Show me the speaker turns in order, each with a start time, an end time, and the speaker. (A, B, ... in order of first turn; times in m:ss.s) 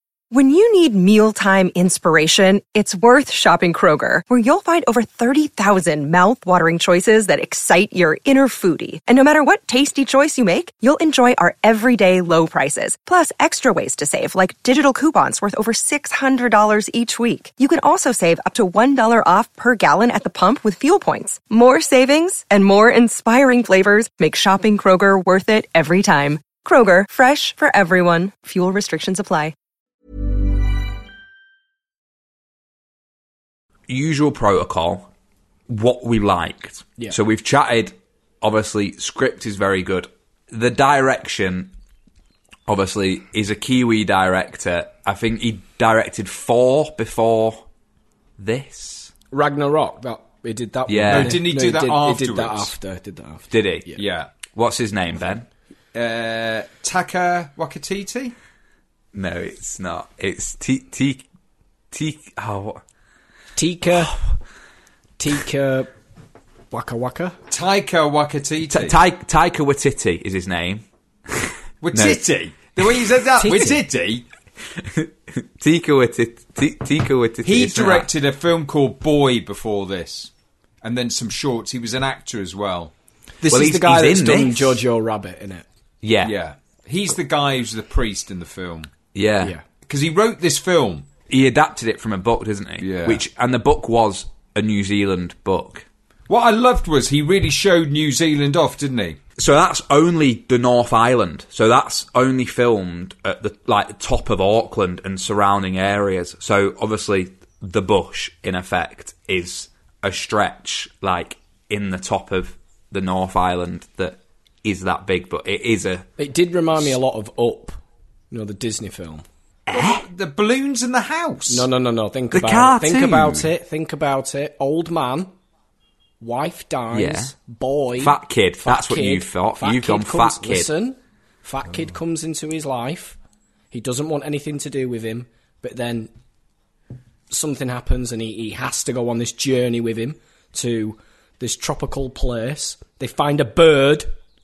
0:00.3-0:29.6 A
0:33.9-0:35.1 B
0:35.7-0:41.7 B
0:42.7-0:47.6 B
0:48.4-0:49.1 B
0:49.3-0:54.0 C
0:50.9-0:51.4 B
0:51.1-0:52.7 D
0:53.5-0:53.9 B
0:54.0-0:54.3 D
0:54.5-0:55.5 B
0:55.9-0:58.3 D
0:59.1-1:01.2 B
1:01.9-1:02.8 B
1:03.6-1:04.2 C
1:05.2-1:05.9 C
1:06.7-1:07.4 C
1:07.5-1:09.0 D
1:08.7-1:12.2 B
1:11.8-1:14.2 D
1:12.8-1:13.8 B
1:13.4-1:13.8 C
1:14.8-1:18.1 B
1:17.4-1:20.3 D
1:20.8-1:22.9 D
1:23.4-1:25.7 C
1:23.5-1:24.8 B
1:26.0-1:26.4 B
1:26.2-1:28.9 D
1:29.1-1:29.6 B
1:29.9-1:31.1 D
1:31.3-1:35.9 B
1:32.8-1:33.2 D
1:36.3-1:39.2 D
1:39.4-1:56.1 B
1:56.2-1:57.8 C
1:58.3-1:59.2 C
1:59.7-2:00.1 B
1:59.7-2:01.7 D
2:01.5-2:05.3 C
2:02.3-2:03.5 B
2:06.2-2:13.2 C
2:06.9-2:07.3 B
2:08.0-2:10.7 B
2:13.7-2:16.1 C
2:17.3-2:24.1 C